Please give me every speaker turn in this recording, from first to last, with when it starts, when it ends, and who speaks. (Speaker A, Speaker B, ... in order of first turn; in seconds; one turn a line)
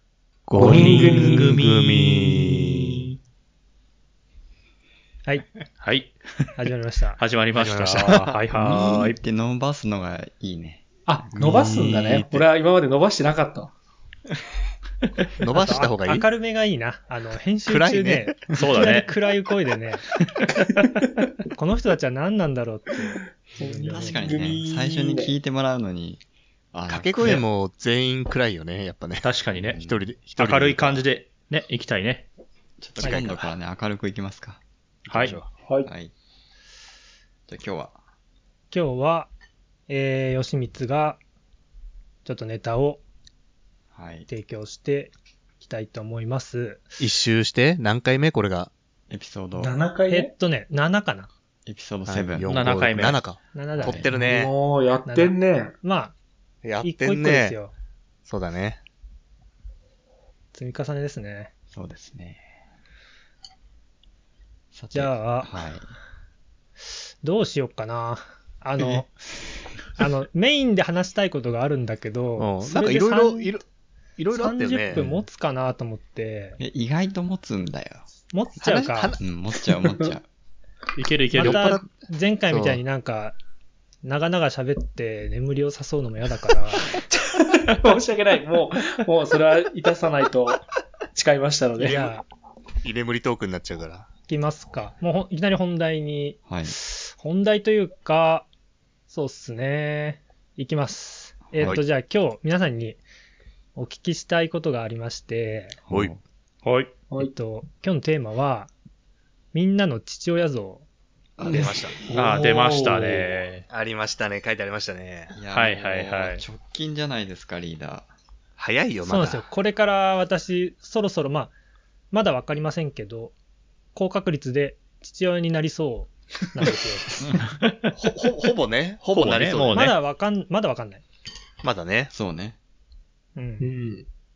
Speaker A: 0.5-3.1
Speaker B: 0.6-3.1
Speaker C: 0.6-1.4
Speaker B: 5.8-6.2
Speaker D: 6.5-7.2
Speaker B: 7.2-9.2
Speaker A: 7.5-8.3
Speaker E: 8.5-10.8
Speaker C: 11.1-13.7
Speaker A: 11.3-12.5
Speaker A: 15.4-16.3
Speaker D: 15.5-20.0
Speaker A: 17.7-18.5
Speaker B: 18.5-19.1
Speaker D: 21.5-24.6
Speaker C: 23.6-25.3
Speaker E: 23.9-26.2
Speaker E: 26.7-27.4
Speaker A: 26.9-31.1
Speaker B: 29.2-29.8
Speaker E: 29.7-30.1
Speaker B: 30.3-32.3
Speaker E: 32.8-34.6
Speaker A: 33.0-33.5
Speaker A: 35.1-35.5
Speaker B: 35.1-35.4
Speaker C: 35.5-35.9
Speaker E: 35.8-36.1
Speaker E: 37.5-38.0
Speaker D: 38.7-39.3
Speaker D: 39.9-41.2
Speaker D: 42.2-43.0
Speaker E: 43.9-44.3
Speaker D: 44.3-46.9
Speaker A: 47.0-48.7
Speaker E: 49.1-49.8
Speaker C: 49.6-50.3
Speaker D: 50.1-51.3
Speaker E: 51.7-52.7
Speaker A: 52.1-54.5
Speaker B: 52.5-53.2
Speaker D: 53.5-54.1
Speaker E: 53.8-54.1
Speaker C: 54.1-55.7
Speaker D: 55.0-56.1
Speaker A: 56.6-57.6
Speaker D: 56.8-57.7
Speaker A: 58.2-58.8
Speaker D: 60.5-61.5
Speaker E: 61.7-62.4
Speaker E: 64.7-65.9
Speaker D: 64.9-65.5
Speaker D: 67.2-69.2
Speaker D: 69.9-73.5
Speaker A: 72.4-73.6
Speaker A: 74.2-75.0
Speaker D: 74.3-76.6
Speaker E: 74.9-75.3
Speaker E: 76.6-78.0
Speaker D: 78.3-79.2
Speaker A: 78.6-79.2
Speaker E: 79.2-80.2
Speaker B: 81.0-81.8
Speaker D: 81.3-83.4
Speaker A: 81.3-81.9
Speaker A: 82.5-82.8
Speaker D: 84.0-86.9
Speaker C: 87.3-90.6
Speaker C: 91.1-92.1
Speaker A: 91.8-92.1
Speaker D: 91.8-92.2
Speaker A: 92.8-94.1
Speaker D: 94.3-98.5
Speaker E: 96.5-96.8
Speaker D: 99.1-103.0
Speaker A: 101.6-101.8
Speaker D: 103.8-105.8
Speaker E: 105.9-106.2
Speaker B: 106.6-106.9
Speaker D: 107.2-108.7
Speaker D: 109.5-110.9
Speaker E: 111.4-111.9
Speaker A: 111.4-112.0
Speaker C: 111.5-113.3
Speaker B: 112.1-113.7
Speaker A: 113.7-115.3
Speaker E: 115.3-118.1
Speaker B: 115.5-116.4
Speaker A: 118.6-119.4
Speaker D: 119.0-121.5
Speaker D: 122.1-123.3
Speaker D: 123.9-127.2
Speaker B: 127.2-128.0
Speaker A: 128.0-129.9
Speaker B: 129.1-129.9
Speaker D: 129.7-131.0
Speaker A: 131.6-132.1
Speaker E: 132.1-132.6
Speaker D: 133.3-133.7
Speaker C: 133.6-134.1